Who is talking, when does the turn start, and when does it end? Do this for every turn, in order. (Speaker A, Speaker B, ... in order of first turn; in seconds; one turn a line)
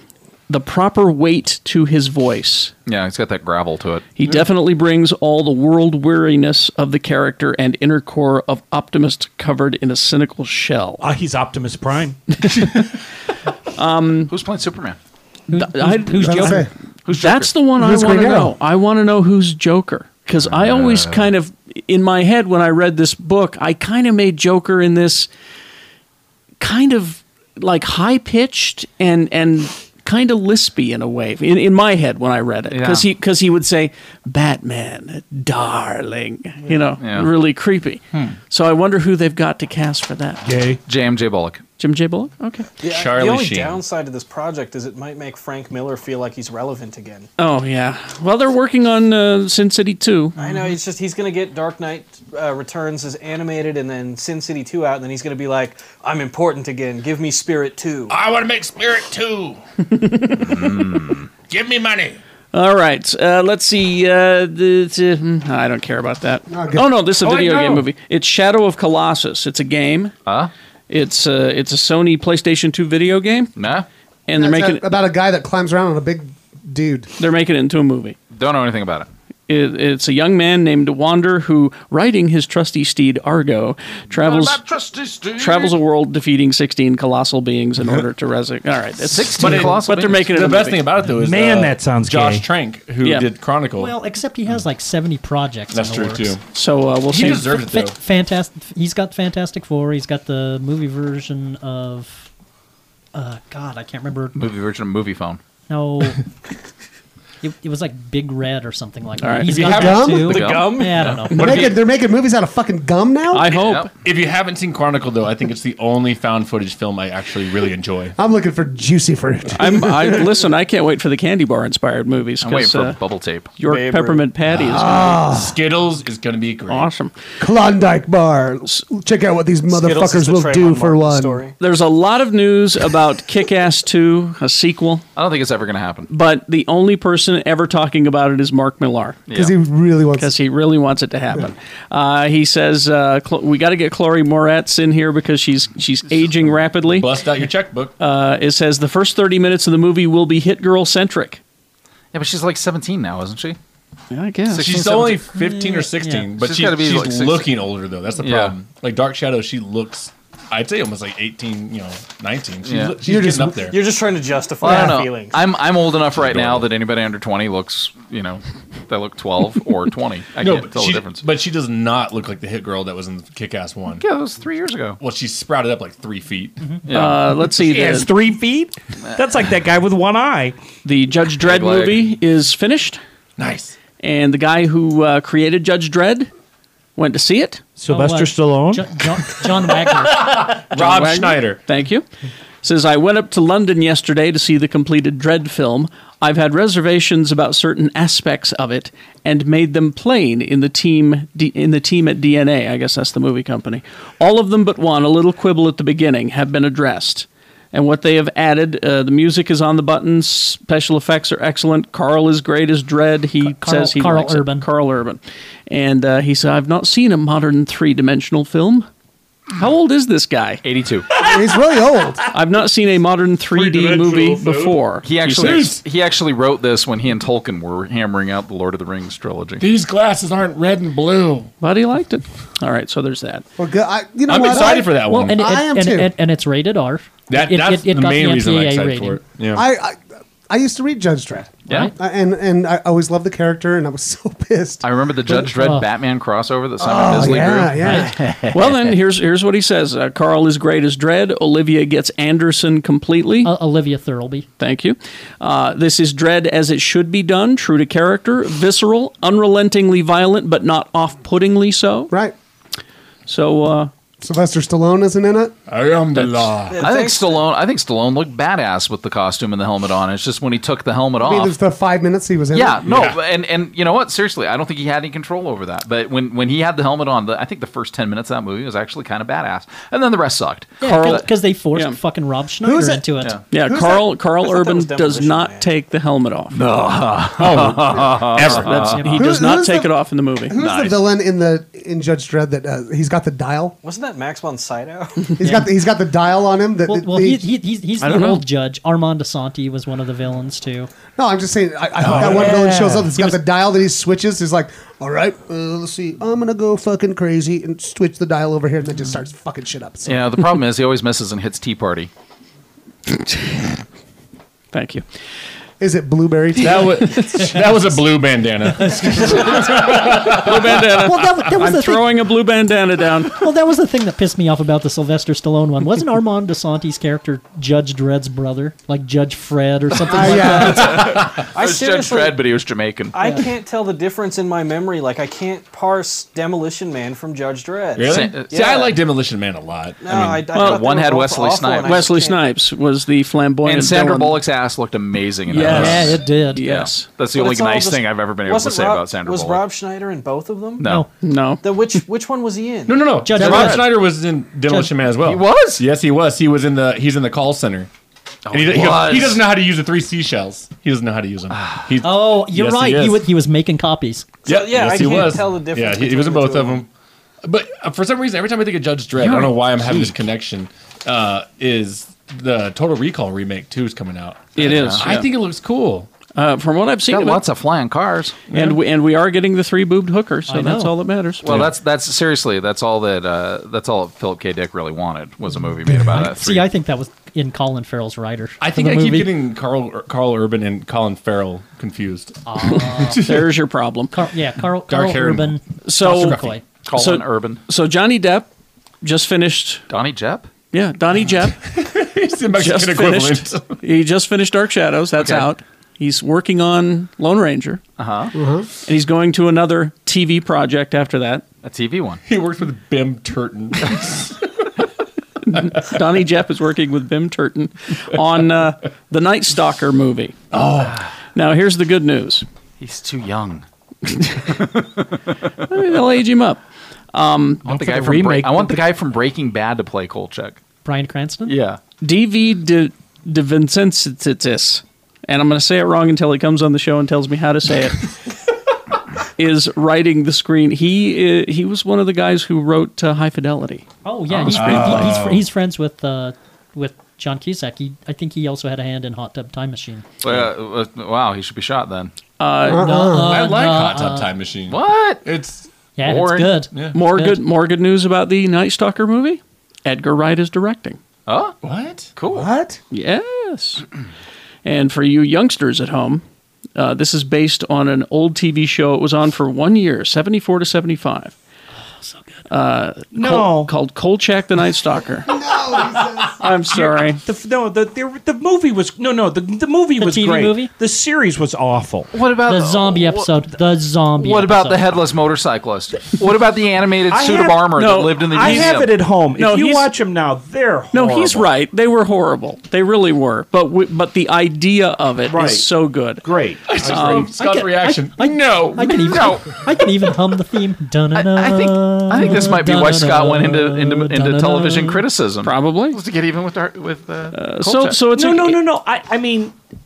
Speaker A: 0.5-2.7
Speaker B: 2.9-4.1
Speaker A: 4.2-11.0
Speaker C: 11.0-12.2
Speaker A: 12.3-13.0
Speaker A: 13.8-14.3
Speaker B: 14.3-15.0
Speaker D: 15.5-16.7
Speaker A: 15.5-25.3
Speaker E: 16.1-16.7
Speaker B: 17.1-17.6
Speaker E: 17.8-18.5
Speaker B: 20.4-21.3
Speaker A: 26.6-40.5
Speaker B: 32.7-33.1
Speaker B: 37.0-37.3
Speaker C: 40.4-40.8
Speaker B: 40.9-41.6
Speaker A: 41.8-42.7
Speaker F: 42.8-47.3
Speaker G: 42.8-43.8
Speaker A: 47.4-50.4
Speaker C: 50.4-50.7
Speaker F: 50.4-58.1
Speaker H: 58.1-59.6
Speaker A: 59.9-61.0
Speaker B: 60.4-61.3
Speaker H: 61.5-62.2
Speaker A: 62.5-70.1
Speaker E: 66.5-66.9
Speaker C: 67.3-67.7
Speaker B: 70.3-70.5
Speaker A: 70.9-73.5
Speaker B: 73.6-73.9
Speaker A: 74.3-74.9
Speaker E: 74.4-77.1
Speaker A: 77.2-78.2
Speaker B: 78.3-79.1
Speaker A: 79.5-84.6
Speaker B: 84.1-85.8
Speaker A: 85.4-90.8
Speaker B: 89.0-90.3
Speaker G: 89.3-94.0
Speaker C: 91.0-92.5
Speaker A: 93.0-93.3
Speaker D: 93.8-96.4
Speaker G: 95.7-96.4
Speaker A: 96.5-97.9
Speaker G: 97.1-98.0
Speaker D: 97.9-102.3
Speaker D: 103.1-104.5
Speaker B: 104.3-105.4
Speaker D: 105.7-106.2
Speaker D: 107.4-111.7
Speaker A: 109.2-110.1
Speaker G: 109.5-110.1
Speaker E: 109.7-110.4
Speaker B: 110.2-111.4
Speaker A: 111.3-111.7
Speaker E: 111.3-113.5
Speaker A: 113.3-113.9
Speaker B: 113.5-113.9
Speaker G: 114.0-118.2
Speaker E: 118.2-120.4
Speaker A: 119.6-123.0
Speaker B: 122.4-123.5
Speaker A: 123.6-125.3
Speaker F: 123.6-124.3
Speaker G: 124.5-126.9
Speaker E: 124.6-125.6
Speaker A: 126.7-127.1
Speaker E: 127.4-131.4
Speaker F: 129.7-131.6
Speaker A: 131.6-135.1
Speaker B: 135.2-136.1
Speaker A: 136.1-139.3
Speaker B: 139.3-139.6
Speaker E: 139.3-140.3
Speaker A: 140.2-147.1
Speaker G: 146.4-147.9
Speaker A: 148.0-151.4
Speaker B: 152.1-153.6
Speaker A: 154.1-155.1
Speaker B: 154.5-155.2
Speaker G: 154.6-163.8
Speaker D: 155.3-156.3
Speaker B: 156.4-157.7
Speaker B: 158.2-158.6
Speaker B: 162.6-163.0
Speaker E: 163.1-163.7
Speaker F: 163.7-165.4
Speaker B: 164.6-171.2
Speaker G: 166.1-166.7
Speaker G: 170.4-174.1
Speaker B: 174.0-175.0
Speaker G: 175.0-176.6
Speaker B: 176.9-177.4
Speaker A: 176.9-178.1
Speaker C: 177.6-180.6
Speaker A: 180.8-183.0
Speaker B: 181.4-182.1
Speaker G: 183.4-183.7
Speaker A: 184.0-186.3
Speaker A: 187.0-187.6
Speaker C: 187.8-189.0
Speaker D: 187.9-190.6
Speaker G: 190.0-191.6
Speaker A: 190.7-192.1
Speaker A: 192.6-218.9
Speaker D: 213.4-214.7
Speaker A: 219.6-220.6
Speaker B: 220.6-221.1
Speaker E: 221.2-222.2
Speaker A: 222.3-225.8
Speaker C: 223.5-224.8
Speaker B: 225.0-229.6
Speaker G: 225.2-225.8
Speaker G: 229.6-231.1
Speaker H: 229.8-231.4
Speaker A: 231.6-233.4
Speaker E: 233.6-236.1
Speaker G: 234.3-235.4
Speaker D: 234.8-239.2
Speaker G: 237.3-239.7
Speaker E: 239.6-245.4
Speaker B: 244.8-248.7
Speaker D: 245.3-245.9
Speaker E: 246.8-248.2
Speaker D: 247.8-248.2
Speaker A: 248.5-253.5
Speaker D: 253.4-254.5
Speaker A: 254.6-262.1
Speaker A: 263.3-263.9
Speaker E: 264.2-265.5
Speaker G: 265.7-266.8
Speaker F: 266.7-267.4
Speaker B: 266.8-271.6
Speaker E: 271.2-273.1
Speaker B: 272.5-281.3
Speaker G: 272.9-273.2
Speaker D: 280.8-283.4
Speaker A: 280.9-282.0
Speaker E: 282.6-284.1
Speaker A: 283.5-286.6
Speaker F: 284.4-285.7
Speaker B: 286.5-289.1
Speaker G: 287.4-288.9
Speaker A: 288.4-290.6
Speaker D: 288.9-289.5
Speaker E: 289.1-289.9
Speaker E: 290.5-293.8
Speaker B: 290.6-291.0
Speaker F: 293.8-295.4
Speaker E: 295.4-297.4
Speaker D: 295.4-295.7
Speaker D: 296.9-300.9
Speaker A: 298.0-298.4
Speaker E: 301.1-310.3
Speaker D: 302.2-303.4
Speaker B: 310.1-312.1
Speaker A: 313.1-313.7
Speaker A: 314.7-315.1
Speaker E: 315.8-317.4
Speaker G: 316.6-320.9
Speaker D: 318.8-320.3
Speaker E: 319.1-319.6
Speaker A: 319.5-323.4
Speaker D: 320.9-322.3
Speaker D: 323.3-331.2
Speaker B: 330.1-333.2
Speaker E: 330.1-331.0
Speaker G: 330.8-331.5
Speaker F: 331.5-332.4
Speaker F: 333.1-339.0
Speaker D: 333.2-333.4
Speaker G: 338.0-340.6
Speaker B: 338.1-338.5
Speaker F: 340.0-342.5
Speaker A: 340.5-340.9
Speaker B: 340.6-342.1
Speaker A: 341.8-344.4
Speaker B: 343.6-349.6
Speaker A: 345.5-347.1
Speaker G: 345.5-346.2
Speaker D: 345.6-346.7
Speaker F: 347.3-350.9
Speaker B: 350.8-351.1
Speaker D: 350.8-351.1
Speaker A: 351.2-351.7
Speaker F: 351.6-353.2
Speaker G: 352.9-357.9
Speaker D: 353.2-355.1
Speaker B: 355.2-355.8
Speaker B: 358.5-359.5
Speaker G: 358.5-363.3
Speaker B: 361.6-361.9
Speaker D: 362.0-364.4
Speaker F: 364.5-366.9
Speaker G: 364.5-366.9
Speaker G: 367.4-376.1
Speaker B: 374.6-375.2
Speaker A: 374.6-375.3
Speaker A: 376.4-377.4
Speaker B: 377.1-378.4
Speaker G: 378.5-378.8
Speaker A: 378.5-381.4
Speaker D: 380.5-381.0
Speaker B: 381.4-386.7
Speaker G: 381.4-381.7
Speaker E: 385.9-386.2
Speaker D: 386.0-389.4
Speaker G: 388.6-393.5
Speaker D: 392.5-393.2
Speaker A: 392.7-394.1
Speaker D: 394.1-396.6
Speaker G: 394.9-396.6
Speaker A: 395.8-398.5
Speaker B: 396.7-397.6
Speaker A: 399.0-399.8
Speaker B: 399.9-400.5
Speaker A: 400.7-401.7
Speaker G: 401.7-403.8
Speaker A: 402.5-407.8
Speaker B: 405.2-405.5
Speaker B: 408.0-408.4
Speaker E: 408.4-408.7
Speaker A: 408.9-411.4
Speaker B: 411.6-412.2
Speaker G: 412.3-414.4
Speaker A: 415.5-420.4
Speaker G: 420.5-421.0
Speaker A: 421.4-422.5
Speaker B: 422.8-423.6
Speaker A: 424.1-424.6
Speaker B: 424.5-425.2
Speaker A: 425.7-426.6
Speaker A: 427.1-428.7
Speaker B: 427.6-430.6
Speaker C: 427.8-428.6
Speaker D: 430.9-431.6
Speaker B: 431.5-431.8
Speaker A: 432.0-438.1
Speaker A: 439.4-443.9
Speaker D: 444.1-450.1
Speaker G: 444.5-445.4
Speaker A: 444.5-445.0
Speaker B: 450.2-452.1
Speaker A: 452.4-452.9
Speaker E: 452.7-453.4
Speaker D: 452.7-454.4
Speaker G: 453.1-455.7
Speaker B: 454.7-455.2
Speaker D: 456.0-457.4
Speaker B: 456.0-456.6
Speaker A: 456.9-461.0
Speaker B: 461.3-461.6
Speaker G: 461.6-462.1
Speaker B: 462.2-462.5
Speaker E: 462.3-462.8
Speaker A: 462.9-463.9
Speaker A: 464.6-466.2
Speaker A: 466.8-471.3
Speaker D: 472.0-472.4
Speaker A: 472.5-475.3
Speaker C: 473.1-473.7
Speaker E: 475.3-476.4
Speaker A: 476.4-477.2
Speaker C: 476.7-482.1
Speaker D: 480.0-480.7
Speaker B: 482.1-483.3
Speaker D: 482.4-485.1
Speaker B: 484.2-489.1
Speaker C: 487.1-491.5
Speaker A: 487.8-488.8
Speaker A: 489.4-489.9
Speaker A: 490.9-496.3
Speaker C: 495.3-495.7
Speaker C: 496.2-497.1
Speaker G: 496.7-499.4
Speaker A: 496.8-497.3
Speaker D: 497.1-505.1
Speaker B: 499.0-499.6
Speaker B: 501.1-508.0
Speaker A: 505.4-506.0
Speaker A: 507.3-508.6
Speaker C: 508.1-509.6